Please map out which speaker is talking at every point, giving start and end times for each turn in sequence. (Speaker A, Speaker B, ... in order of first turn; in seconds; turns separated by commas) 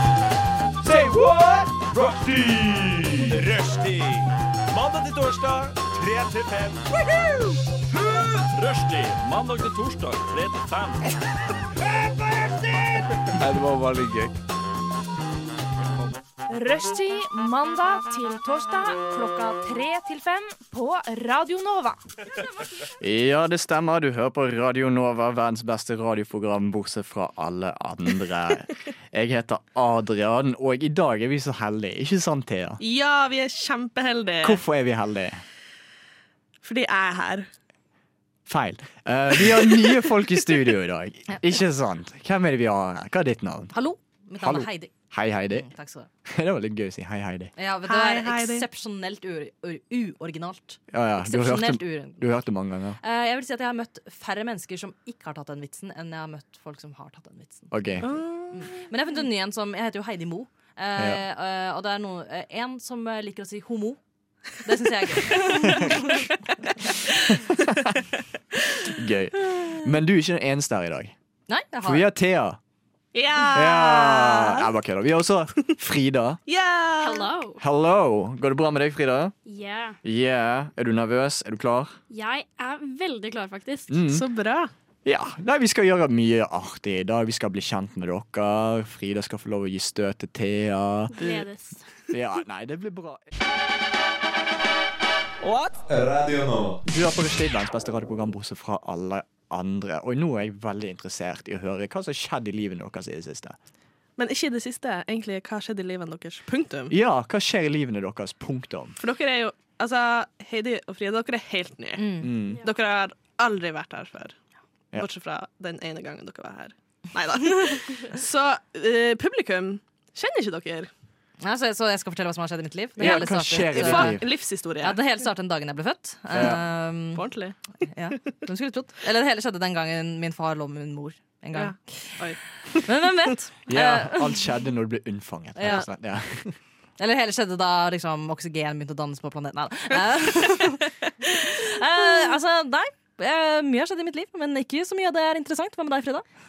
Speaker A: 0.8-7.1, Speaker A: 7.9-11.1, Speaker A: 12.1-14.4, Speaker B: 16.5-22.0, Speaker C: 23.0-32.8, Speaker D: 32.8-34.6, Speaker C: 34.4-35.4, Speaker D: 36.6-37.5, Speaker C: 38.5-43.7, Speaker E: 43.7-44.9, Speaker C: 44.4-45.7, Speaker E: 45.5-46.1, Speaker C: 46.2-47.5, Speaker E: 47.6-52.3, Speaker D: 47.9-48.6, Speaker C: 50.9-53.0, Speaker E: 53.0-64.0, Speaker C: 57.7-58.1, Speaker D: 58.0-58.7, Speaker E: 64.6-66.3, Speaker D: 65.3-65.6, Speaker C: 65.5-65.9, Speaker C: 67.1-68.0, Speaker C: 68.8-71.1, Speaker E: 71.5-72.1, Speaker C: 71.8-72.6, Speaker D: 73.1-74.7, Speaker C: 73.5-76.4, Speaker D: 76.5-77.3, Speaker F: 77.0-77.6, Speaker C: 77.6-79.3, Speaker F: 79.5-80.0, Speaker C: 80.0-81.9, Speaker F: 82.1-84.0, Speaker C: 83.9-84.2, Speaker D: 84.1-84.7, Speaker C: 85.0-91.1, Speaker F: 91.1-91.8, Speaker D: 91.2-91.5, Speaker C: 92.1-93.2, Speaker A: 95.4-96.8, Speaker C: 96.9-103.5, Speaker D: 104.2-106.9, Speaker C: 106.9-109.0, Speaker D: 109.0-114.3, Speaker E: 112.0-112.3, Speaker C: 112.2-112.6, Speaker D: 114.9-120.9, Speaker E: 121.4-124.2, Speaker C: 123.0-124.2, Speaker D: 123.0-125.0, Speaker E: 124.8-127.2, Speaker C: 126.3-126.6, Speaker D: 126.3-127.6, Speaker E: 127.8-132.2, Speaker D: 131.5-132.8, Speaker E: 132.8-134.4, Speaker C: 133.7-136.6, Speaker E: 135.6-135.9, Speaker E: 137.0-146.2